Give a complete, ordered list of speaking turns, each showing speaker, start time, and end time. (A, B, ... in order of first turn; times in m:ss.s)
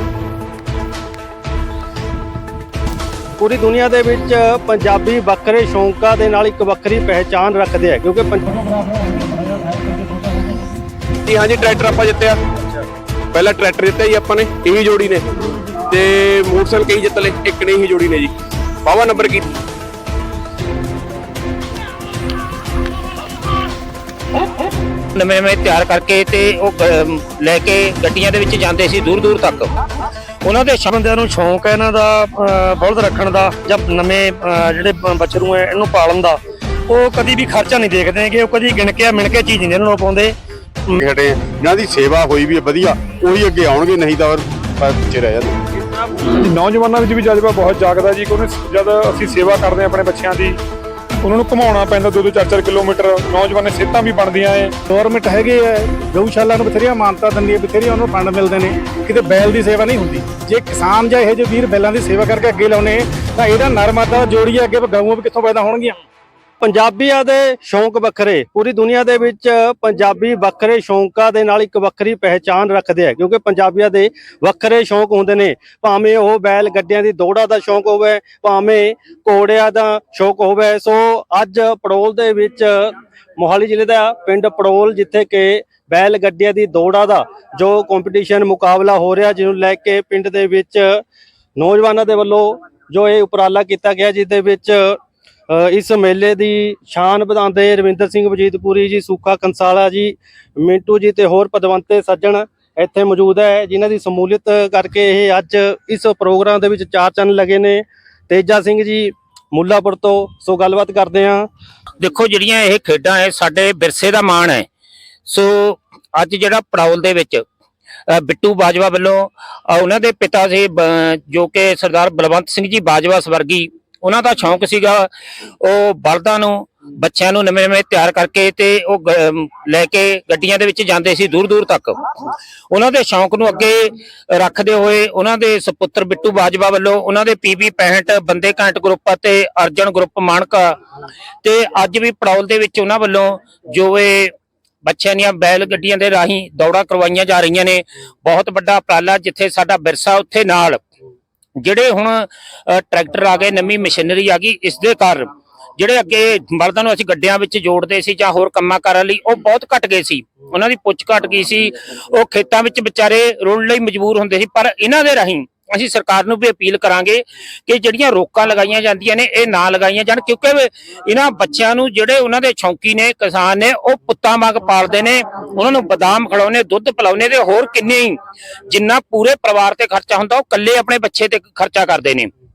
0:03.4-0:08.7 A
0:11.2-0:12.4 B
0:12.5-0:12.8 A
0:13.3-0:15.3 B
0:15.9-0:18.3 B
0:18.8-0:19.5 B
0:25.2-0:29.7 C
0:30.4-0:30.9 C
0:30.8-0:40.4 D
0:41.0-0:45.6 E
0:45.7-0:46.4 A
0:46.4-0:50.6 F
0:51.2-0:54.7 F
0:54.9-1:06.0 G
1:06.6-1:31.0 A
1:31.6-1:51.5 A
1:52.0-1:54.6 C
1:55.3-1:57.4 C
1:58.1-2:05.1 C
2:05.6-2:12.0 C
2:12.7-2:20.8 C
2:21.4-2:24.3 C
2:24.8-2:30.8 C
2:31.6-2:35.2 C
2:35.8-3:02.3 C